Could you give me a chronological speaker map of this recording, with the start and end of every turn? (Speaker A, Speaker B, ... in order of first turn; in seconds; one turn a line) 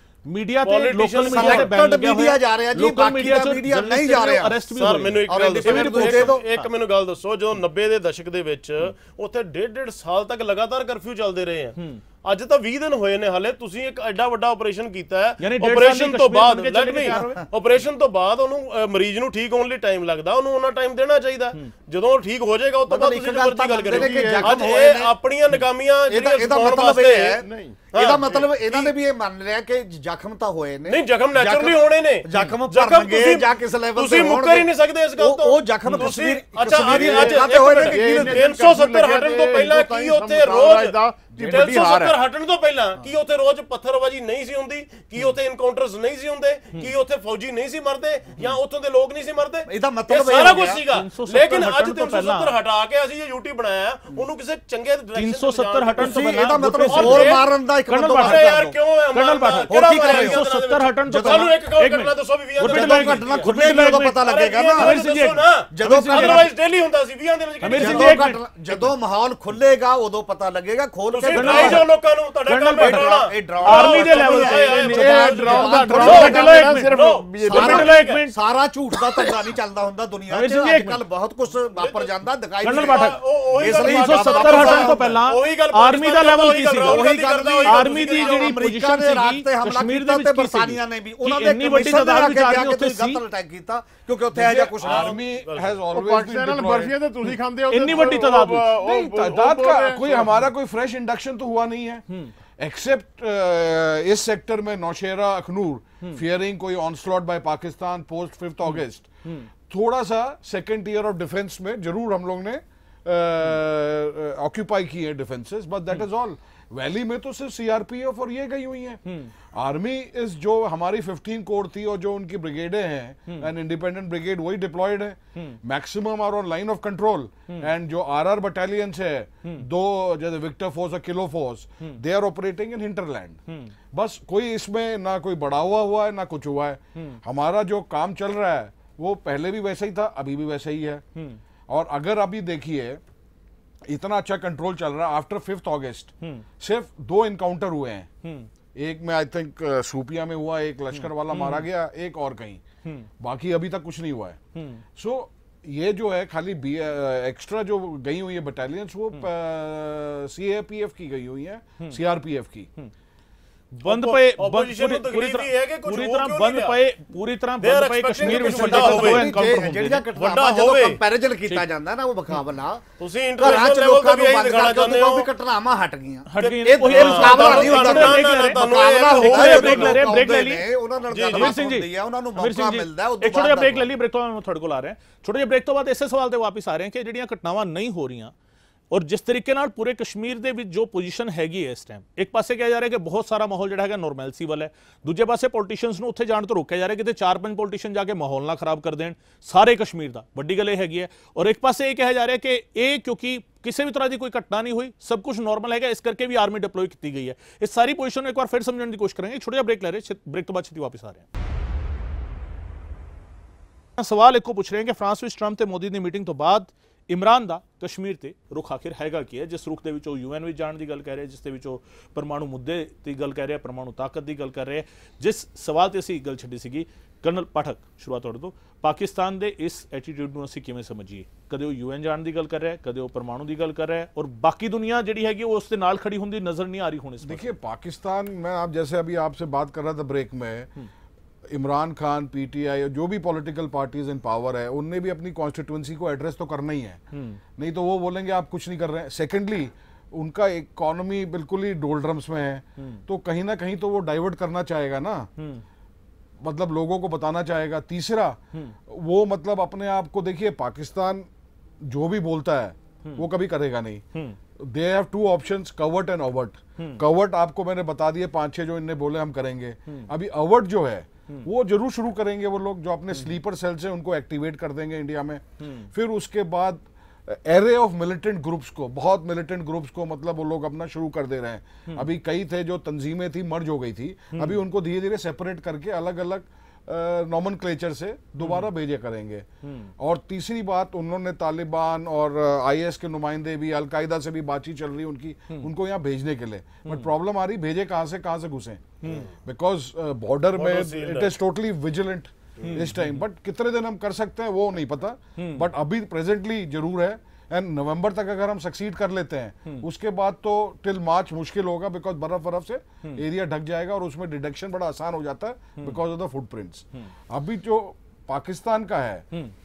Speaker A: 0.3-6.7
Speaker B: 0.7-1.7
Speaker C: 1.3-4.7
Speaker B: 4.8-27.4
Speaker C: 5.3-6.4
Speaker A: 11.8-12.0
Speaker A: 15.4-17.4
Speaker C: 17.1-17.5
Speaker C: 22.9-25.1
Speaker D: 23.9-24.6
Speaker C: 26.1-38.5
Speaker D: 27.4-28.4
Speaker B: 27.9-28.9
Speaker B: 30.9-57.5
Speaker A: 35.9-36.1
Speaker D: 36.9-42.2
Speaker C: 49.7-50.8
Speaker A: 50.9-52.6
Speaker A: 55.1-64.2
Speaker C: 56.0-58.6
Speaker B: 58.2-63.5
Speaker C: 59.7-60.4
Speaker C: 61.1-61.5
Speaker C: 62.6-65.0
Speaker B: 64.2-68.2
Speaker A: 64.8-66.5
Speaker C: 65.7-66.5
Speaker A: 67.6-68.4
Speaker C: 67.7-71.8
Speaker B: 71.1-78.2
Speaker A: 71.2-71.9
Speaker A: 72.5-76.8
Speaker C: 72.8-76.8
Speaker D: 75.0-77.9
Speaker C: 77.4-85.2
Speaker A: 77.5-78.3
Speaker A: 80.3-81.0
Speaker B: 81.7-82.1
Speaker A: 82.6-87.1
Speaker B: 82.6-88.6
Speaker C: 86.8-95.2
Speaker A: 87.6-93.2
Speaker E: 94.3-97.0
Speaker B: 94.8-95.8
Speaker D: 95.9-100.3
Speaker A: 97.7-98.7
Speaker E: 98.8-102.0
Speaker E: 102.6-109.1
Speaker A: 108.7-109.5
Speaker E: 109.7-119.0
Speaker A: 119.1-119.3
Speaker E: 119.5-133.4
Speaker A: 133.5-133.7
Speaker E: 133.9-141.0
Speaker E: 141.7-143.0
Speaker E: 143.9-148.1
Speaker A: 148.2-148.5
Speaker E: 148.8-152.6
Speaker A: 150.9-151.7
Speaker A: 152.8-153.1
Speaker E: 153.2-154.4
Speaker A: 154.6-154.8
Speaker E: 155.0-162.7
Speaker A: 163.8-170.1
Speaker B: 163.9-166.8
Speaker B: 167.6-169.4
Speaker C: 168.2-172.8
Speaker B: 170.2-171.0
Speaker B: 173.0-175.3
Speaker C: 173.4-183.9
Speaker A: 176.3-180.7
Speaker B: 176.4-180.1
Speaker B: 181.1-181.5
Speaker A: 181.3-188.3
Speaker A: 188.9-211.3
Speaker A: 214.0-237.6
Speaker E: 237.2-240.7
Speaker E: 241.5-247.0
Speaker A: 247.1-247.4
Speaker E: 247.6-255.3
Speaker A: 252.8-253.0
Speaker A: 255.4-255.6
Speaker E: 256.4-261.3
Speaker E: 261.8-264.0
Speaker E: 264.6-289.5
Speaker A: 266.8-267.0
Speaker A: 275.6-275.9
Speaker A: 284.3-284.6
Speaker A: 288.4-288.7
Speaker A: 289.6-289.9
Speaker E: 290.0-298.9
Speaker A: 296.9-297.1
Speaker A: 299.0-299.3
Speaker E: 299.4-319.2
Speaker B: 300.6-301.3
Speaker A: 302.6-303.2
Speaker A: 305.4-305.6